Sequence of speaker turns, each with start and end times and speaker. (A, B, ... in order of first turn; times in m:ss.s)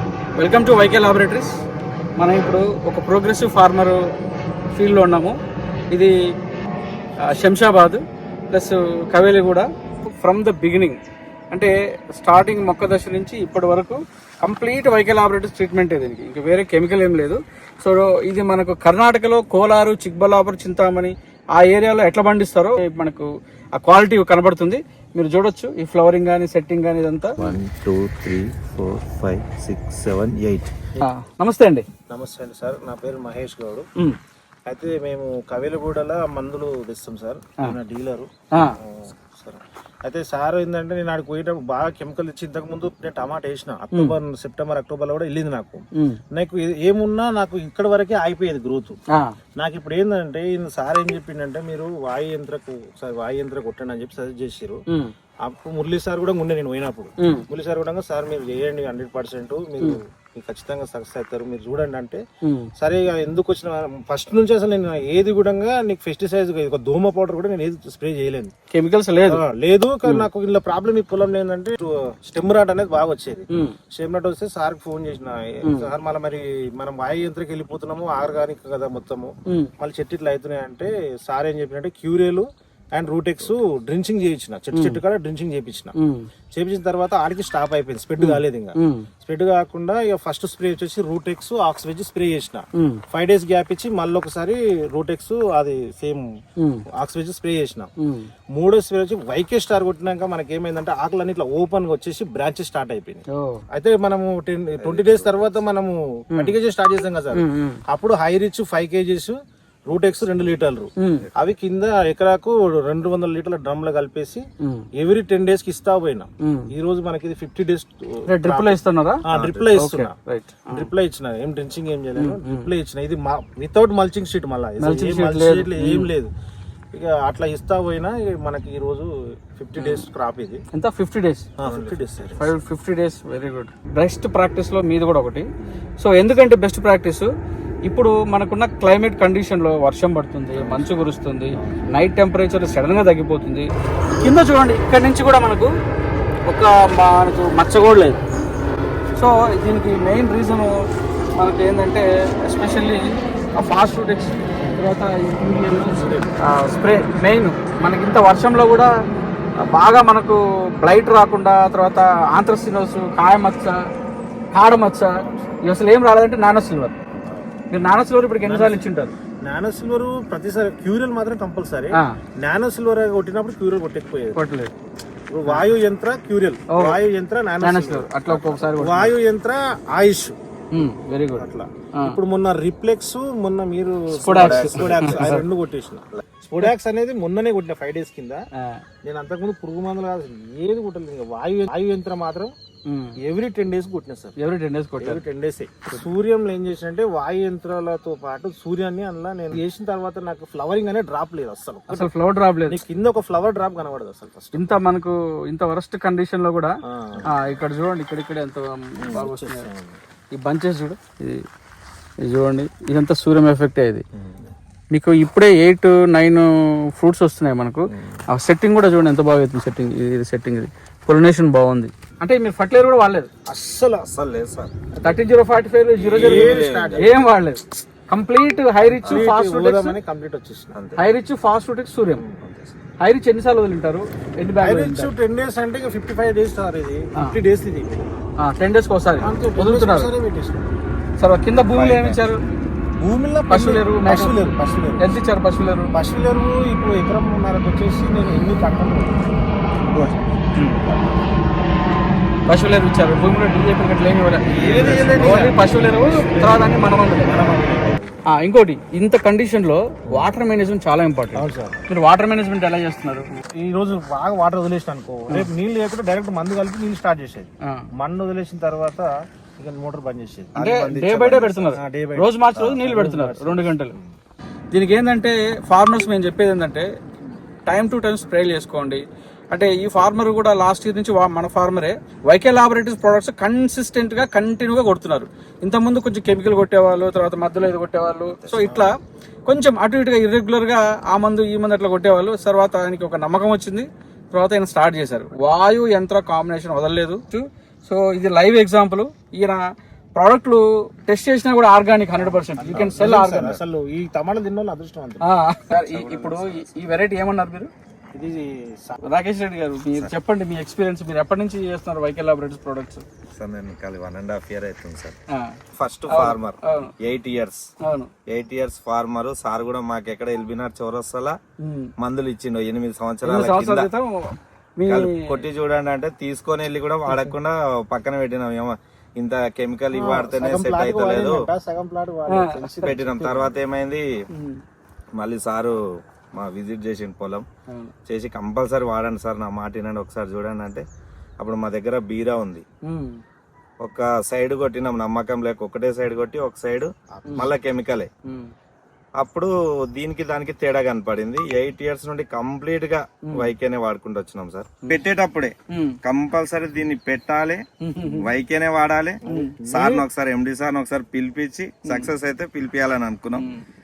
0:00.4-0:01.6 A
0:02.2-0:04.0 A
0:04.8-0:05.3 A
0:07.3-0:11.0 A
0:11.5-0:27.4 A
0:27.4-0:30.7 B
0:31.0-0:31.8 A
0:32.1-0:33.8 C
0:34.7-0:49.0 C
0:49.6-0:54.8 C
0:55.4-1:02.2 C
0:57.2-0:57.4 A
1:02.4-1:02.7 A
1:02.8-1:08.5 C
1:08.7-1:09.4 A
1:09.3-1:25.9 C
1:13.5-1:13.8 A
1:15.6-1:15.9 A
1:26.0-1:26.2 A
1:26.5-1:36.2 C
1:28.2-1:29.1 A
1:32.8-1:33.0 A
1:36.6-1:36.8 A
1:36.9-1:37.9 C
1:38.0-1:38.3 A
1:38.6-1:49.4 C
1:43.3-1:43.6 A
1:44.8-1:45.5 B
1:47.3-1:47.8 A
1:49.9-1:54.4 C
1:51.0-1:51.3 A
1:54.6-1:54.9 A
1:55.0-2:00.2 C
1:56.4-1:56.7 A
1:58.3-1:59.2 A
1:59.3-1:59.7 B
1:59.8-2:00.9 A
2:00.7-2:06.3 C
2:02.2-2:02.7 A
2:04.8-2:06.1 A
2:06.9-2:10.6 C
2:09.8-2:10.1 A
2:10.7-2:11.8 A
2:11.6-2:12.6 C
2:12.4-2:15.5 A
2:15.6-2:15.9 C
2:16.0-2:17.3 A
2:17.9-2:23.7 A
2:20.6-2:21.0 C
2:21.6-2:21.9 C
2:24.2-2:25.7 A
2:26.5-2:28.2 A
2:29.2-2:30.8 A
2:31.4-2:33.0 A
2:33.6-2:38.9 A
2:39.6-2:43.8 A
2:44.5-2:46.9 A
2:45.1-2:45.6 C
2:47.2-2:47.5 C
2:47.7-2:49.2 A
2:48.4-2:54.4 C
2:54.3-2:54.7 A
2:55.3-3:00.4 C
2:56.7-2:57.0 A
2:57.6-2:59.2 A
3:00.7-3:02.2 A
3:01.4-3:08.4 C
3:04.1-3:05.4 A
3:04.3-3:05.3 B
3:08.6-3:08.8 A
3:09.0-3:12.5 C
3:12.9-3:13.2 A
3:13.2-3:14.4 C
3:14.4-3:15.2 A
3:15.0-3:22.1 C
3:21.9-3:22.8 A
3:22.7-3:24.8 C
3:24.5-3:26.8 A
3:26.9-3:27.6 C
3:27.3-3:29.7 A
3:29.0-3:30.0 C
3:30.3-3:31.4 A
3:32.2-3:34.0 A
3:34.2-3:34.5 C
3:34.9-3:43.3 A
3:43.5-3:44.1 C
3:44.0-3:44.7 B
3:45.0-3:45.2 C
3:45.0-3:50.0 A
3:46.0-3:47.2 C
3:46.0-3:47.1 B
3:49.0-3:50.8 C
3:50.7-3:51.1 B
3:51.0-3:52.2 A
3:52.4-3:52.8 B
3:53.0-3:55.1 A
3:54.6-3:58.1 C
3:58.4-4:00.1 A
3:59.2-4:00.7 C
4:01.2-4:02.4 A
4:01.7-4:02.2 B
4:03.0-4:05.1 C
4:03.5-4:04.3 A
4:05.0-4:05.9 A
4:05.9-4:09.3 C
4:09.9-4:11.3 C
4:10.6-4:10.8 A
4:12.5-4:17.4 A
4:14.5-4:15.1 B
4:14.6-4:18.2 C
4:18.3-4:23.3 A
4:21.4-4:21.8 C
4:23.6-4:34.1 C
4:30.6-4:33.9 A
4:30.9-4:31.3 B
4:34.7-4:36.9 A
4:37.7-4:48.9 A
4:48.4-4:48.9 C
4:49.5-4:59.6 A
5:00.1-5:03.6 A
5:02.2-5:05.3 C
5:05.2-5:07.7 A
5:05.8-5:06.5 C
5:06.0-5:06.6 B
5:08.1-5:09.1 C
5:09.0-5:13.0 A
5:13.3-5:15.2 B
5:15.3-5:15.6 A
5:15.8-5:17.6 B
5:16.1-5:16.9 A
5:17.8-5:18.1 A
5:18.3-5:21.4 B
5:21.6-5:21.9 A
5:22.0-5:23.9 B
5:23.2-5:25.4 A
5:24.9-5:31.4 B
5:29.9-5:33.6 C
5:32.3-5:33.0 A
5:32.8-5:34.1 B
5:34.3-5:34.6 A
5:35.2-5:35.8 B
5:36.4-5:37.4 B
5:38.1-5:40.8 B
5:41.4-5:42.6 B
5:42.8-5:43.2 A
5:43.8-5:48.1 B
5:47.1-5:47.5 C
5:48.2-5:48.5 A
5:49.2-6:03.5 B
5:55.7-5:56.0 A
5:57.8-5:58.3 A
5:59.2-5:59.6 A
5:59.2-6:00.0 C
6:03.3-6:03.6 A